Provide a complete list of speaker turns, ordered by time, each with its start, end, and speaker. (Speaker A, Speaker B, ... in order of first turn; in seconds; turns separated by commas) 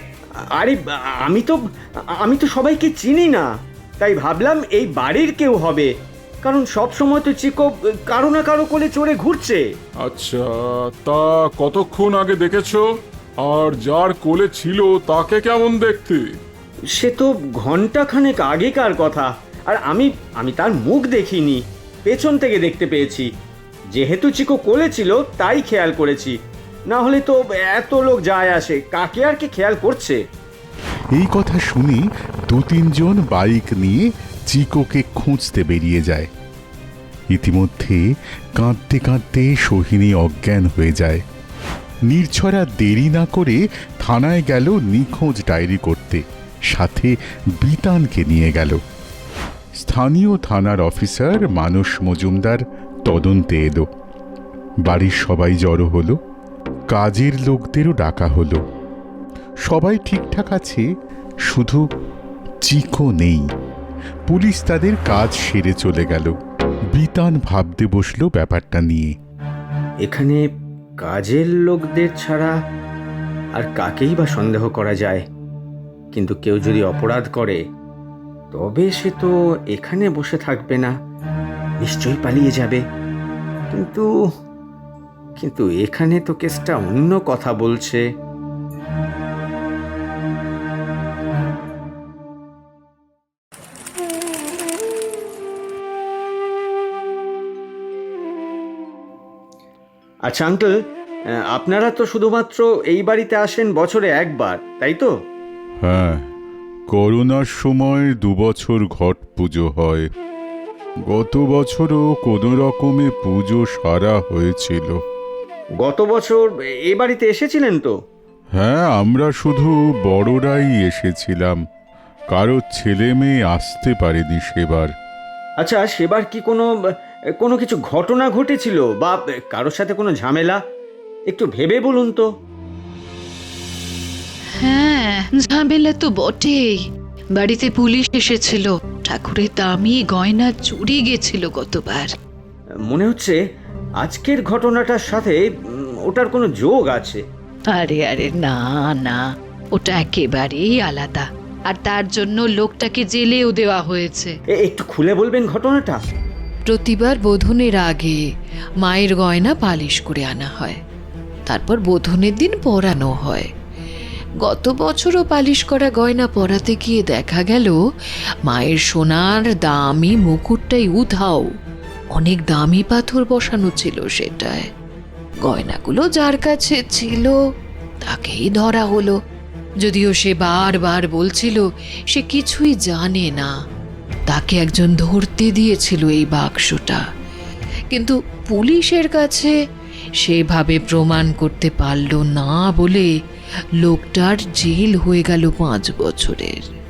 Speaker A: 0.6-1.6, Speaker A: 2.2-3.5, Speaker A: 4.0-5.9, Speaker A: 6.4-9.6, Speaker B: 10.0-12.8, Speaker B: 13.4-16.4, Speaker A: 16.9-23.3, Speaker A: 23.9-26.4, Speaker A: 26.9-30.2, Speaker C: 31.1-36.3, Speaker C: 37.3-38.0, Speaker C: 38.6-41.2, Speaker C: 42.1-48.8, Speaker C: 49.8-53.9, Speaker C: 54.8-56.2, Speaker C: 56.9-58.6, Speaker C: 59.7-60.8, Speaker C: 61.5-61.8, Speaker C: 62.6-63.4, Speaker C: 64.3-66.3, Speaker C: 67.0-69.1, Speaker A: 70.0-70.4, Speaker A: 71.0-72.5, Speaker A: 73.6-75.2, Speaker A: 76.1-77.6, Speaker A: 78.5-80.9, Speaker A: 81.8-82.8, Speaker A: 83.7-84.1, Speaker A: 85.4-88.0, Speaker A: 100.3-100.7, Speaker A: 101.5-105.1, Speaker C: 105.8-106.2, Speaker C: 106.9-110.1, Speaker C: 111.1-115.0, Speaker A: 115.8-117.9, Speaker C: 118.6-121.6, Speaker C: 122.3-124.9, Speaker A: 125.6-126.6, Speaker A: 127.4-130.6, Speaker A: 131.3-132.3, Speaker D: 134.6-136.8, Speaker D: 137.3-142.1, Speaker A: 142.9-143.4, Speaker A: 144.0-147.2, Speaker D: 147.7-149.2, Speaker D: 149.8-154.3, Speaker A: 154.6-156.0, Speaker D: 156.7-158.2, Speaker D: 158.8-160.8, Speaker D: 161.5-163.5, Speaker D: 164.4-167.8, Speaker D: 168.5-171.5, Speaker D: 172.1-174.7, Speaker D: 175.4-177.3, Speaker D: 178.0-179.2, Speaker D: 179.8-183.5, Speaker D: 184.3-187.0, Speaker D: 187.9-189.5, Speaker D: 190.2-193.1, Speaker D: 193.8-196.7